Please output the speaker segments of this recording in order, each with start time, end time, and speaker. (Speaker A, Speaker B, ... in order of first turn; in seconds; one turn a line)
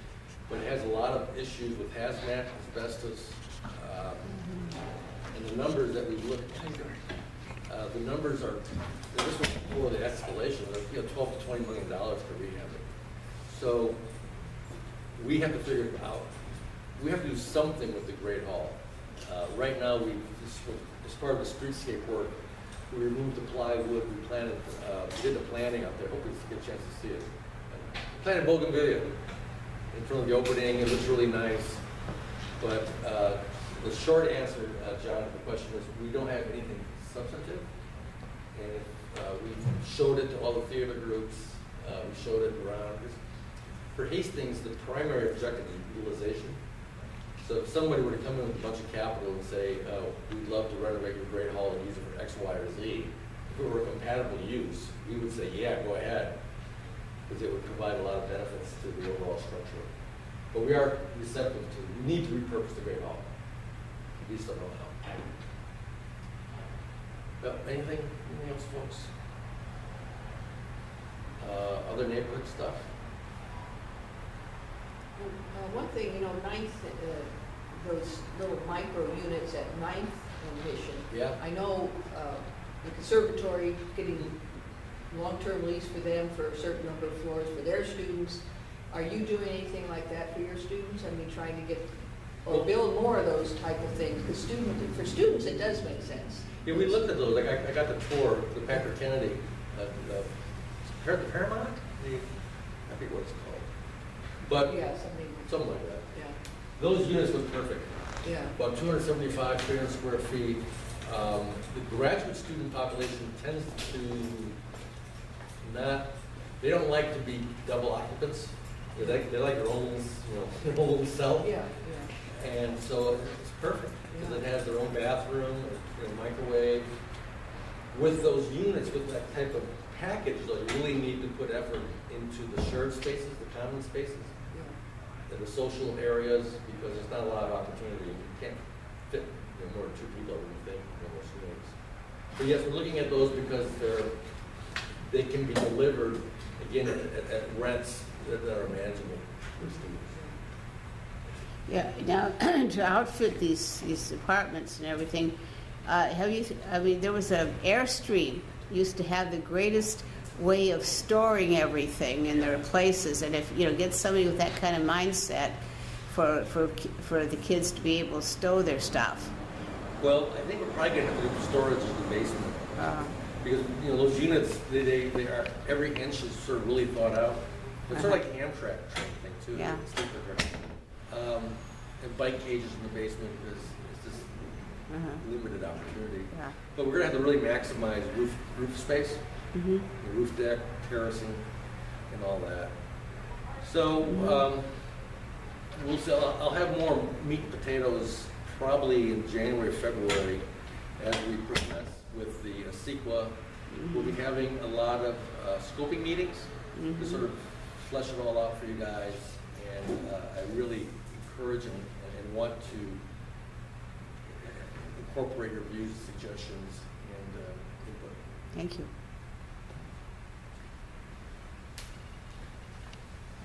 Speaker A: 0.5-4.4
Speaker A: 5.3-7.0
Speaker A: 7.7-12.9
Speaker A: 13.5-14.0
Speaker A: 15.2-16.4
Speaker A: 16.9-22.4
Speaker A: 22.9-29.1
Speaker A: 29.9-31.8
Speaker A: 32.6-37.7
Speaker A: 38.5-43.2
Speaker A: 43.9-46.6
Speaker A: 47.4-56.3
Speaker A: 57.3-59.9
Speaker A: 60.5-63.3
Speaker A: 64.2-65.3
Speaker A: 67.4-69.1
Speaker A: 71.4-72.9
Speaker B: 75.2-84.4
Speaker A: 81.1-81.4
Speaker B: 85.1-91.9
Speaker B: 92.4-97.0
Speaker A: 96.6-100.3
Speaker A: 100.9-102.3
Speaker A: 102.9-103.7
Speaker A: 104.4-104.9
Speaker B: 104.6-106.3
Speaker A: 105.4-106.1
Speaker A: 106.8-107.9
Speaker B: 108.2-108.5
Speaker A: 108.5-114.5
Speaker A: 115.6-121.6
Speaker B: 121.4-122.1
Speaker A: 122.2-126.9
Speaker B: 124.1-124.4
Speaker A: 127.9-134.3
Speaker A: 135.3-141.7
Speaker A: 142.4-144.1
Speaker A: 145.1-150.2
Speaker C: 151.7-169.3
Speaker A: 170.0-172.8
Speaker C: 172.8-173.1
Speaker A: 173.4-184.5
Speaker C: 177.9-178.2
Speaker C: 179.5-179.8
Speaker C: 184.9-185.2
Speaker A: 185.2-189.2
Speaker C: 189.5-189.8
Speaker A: 190.0-191.4
Speaker A: 192.1-192.7
Speaker A: 193.6-194.7
Speaker C: 194.0-194.4
Speaker A: 195.7-200.4
Speaker A: 201.0-203.3
Speaker C: 203.7-204.1
Speaker A: 203.9-213.0
Speaker C: 206.8-207.2
Speaker A: 214.3-218.2
Speaker C: 218.5-218.9